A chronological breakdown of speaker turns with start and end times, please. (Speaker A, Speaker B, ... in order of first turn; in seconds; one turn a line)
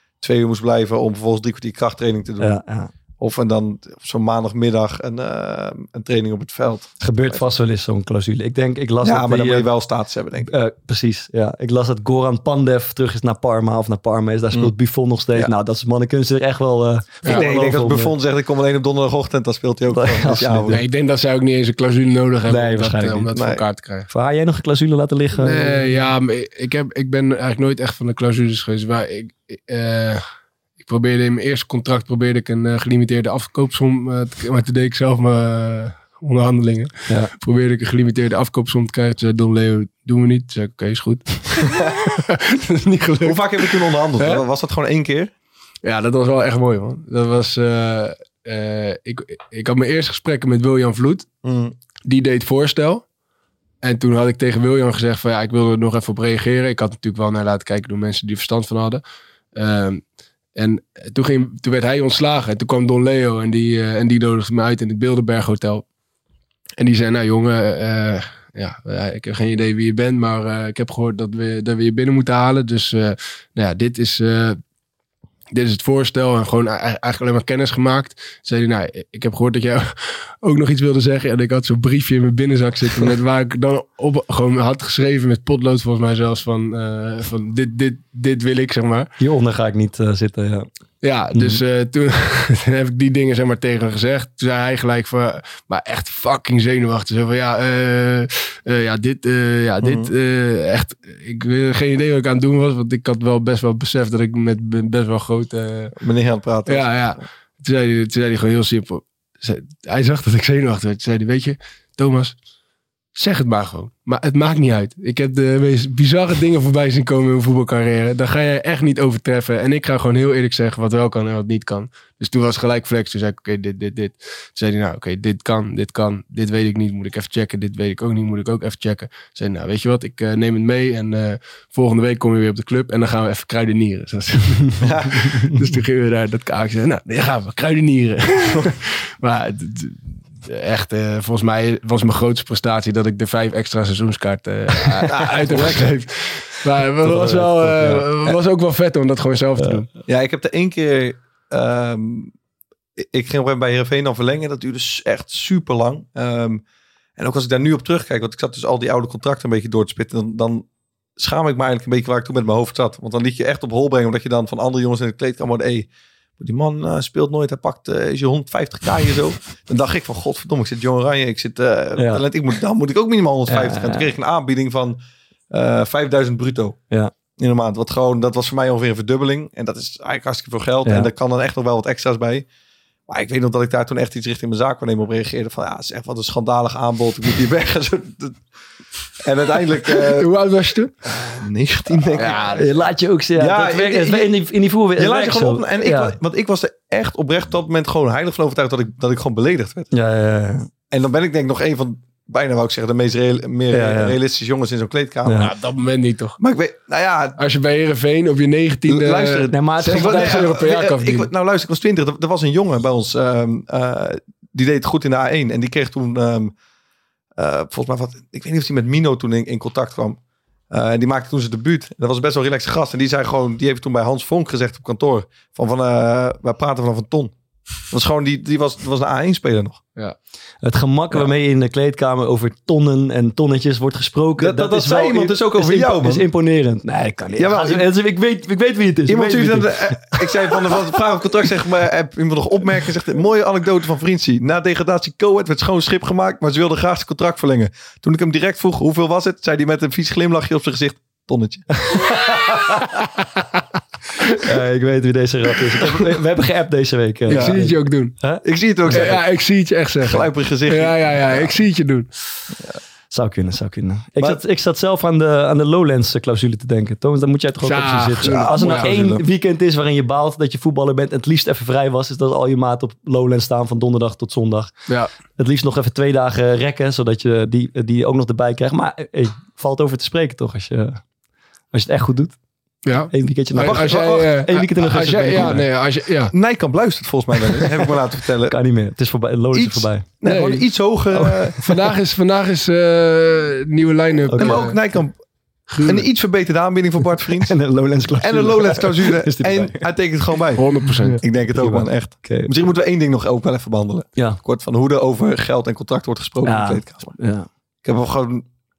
Speaker A: 0.2-2.6
Speaker B: 2.4-2.9
Speaker A: 3.2-7.4
Speaker B: 7.0-9.7
Speaker A: 9.0-10.5
Speaker B: 10.5-18.1
Speaker A: 17.2-20.8
Speaker B: 19.9-20.8
Speaker C: 20.7-24.1
Speaker B: 22.5-23.3
Speaker A: 23.3-23.6
Speaker B: 24.1-25.9
Speaker C: 25.4-30.2
Speaker C: 30.8-44.4
Speaker A: 43.2-45.3
Speaker C: 45.8-51.3
Speaker A: 51.4-51.7
Speaker C: 52.0-53.0
Speaker C: 53.8-59.0
Speaker C: 59.5-60.0
Speaker C: 60.5-65.8
Speaker C: 66.8-74.6
Speaker C: 75.5-89.1
Speaker B: 89.2-90.7
Speaker C: 91.0-105.9
Speaker B: 91.3-91.6
Speaker A: 99.8-100.1
Speaker A: 106.0-107.2
Speaker C: 106.7-112.4
Speaker C: 113.1-149.9
Speaker A: 134.8-135.5
Speaker A: 145.1-145.9
Speaker B: 147.1-148.1
Speaker A: 150.1-152.3
Speaker A: 153.0-156.6
Speaker A: 157.2-160.7
Speaker A: 161.2-165.9
Speaker A: 166.4-175.0
Speaker B: 171.9-172.2
Speaker B: 173.5-174.1
Speaker A: 175.5-176.8
Speaker A: 177.4-182.4
Speaker A: 183.1-188.4
Speaker A: 189.2-190.3
Speaker C: 189.9-190.9
Speaker A: 191.1-192.6
Speaker C: 192.1-192.7
Speaker B: 192.5-196.2
Speaker A: 193.4-194.3
Speaker A: 194.9-199.9
Speaker B: 199.9-200.7
Speaker A: 200.9-205.5
Speaker B: 203.7-204.2
Speaker B: 205.2-205.5
Speaker C: 205.4-206.4
Speaker A: 206.4-207.4
Speaker C: 207.4-211.3
Speaker A: 208.9-216.5
Speaker B: 209.5-210.5
Speaker A: 217.4-220.2
Speaker A: 220.7-227.3
Speaker A: 227.9-229.8
Speaker B: 230.6-240.8
Speaker A: 234.4-236.2
Speaker A: 237.4-237.8
Speaker A: 239.1-252.0
Speaker B: 251.9-252.9
Speaker B: 254.4-259.1
Speaker C: 257.3-258.1
Speaker A: 257.3-257.6
Speaker A: 258.4-259.2
Speaker C: 258.9-262.1
Speaker A: 260.0-261.6
Speaker B: 263.1-274.8
Speaker C: 267.6-268.9
Speaker A: 268.2-269.2
Speaker B: 275.4-281.0
Speaker B: 281.7-282.4
Speaker C: 282.8-286.3
Speaker B: 283.1-285.6
Speaker A: 283.5-285.8
Speaker A: 286.3-288.6
Speaker B: 288.5-290.3
Speaker A: 289.5-291.7
Speaker C: 290.2-290.6
Speaker B: 291.1-291.6
Speaker C: 291.6-294.8
Speaker B: 294.3-294.6
Speaker A: 294.4-295.2
Speaker C: 295.7-296.1
Speaker A: 295.8-297.5
Speaker B: 297.4-299.9
Speaker A: 298.2-300.7
Speaker C: 300.6-301.2
Speaker B: 301.0-302.5
Speaker A: 301.2-307.1
Speaker B: 306.4-307.5
Speaker A: 307.8-308.5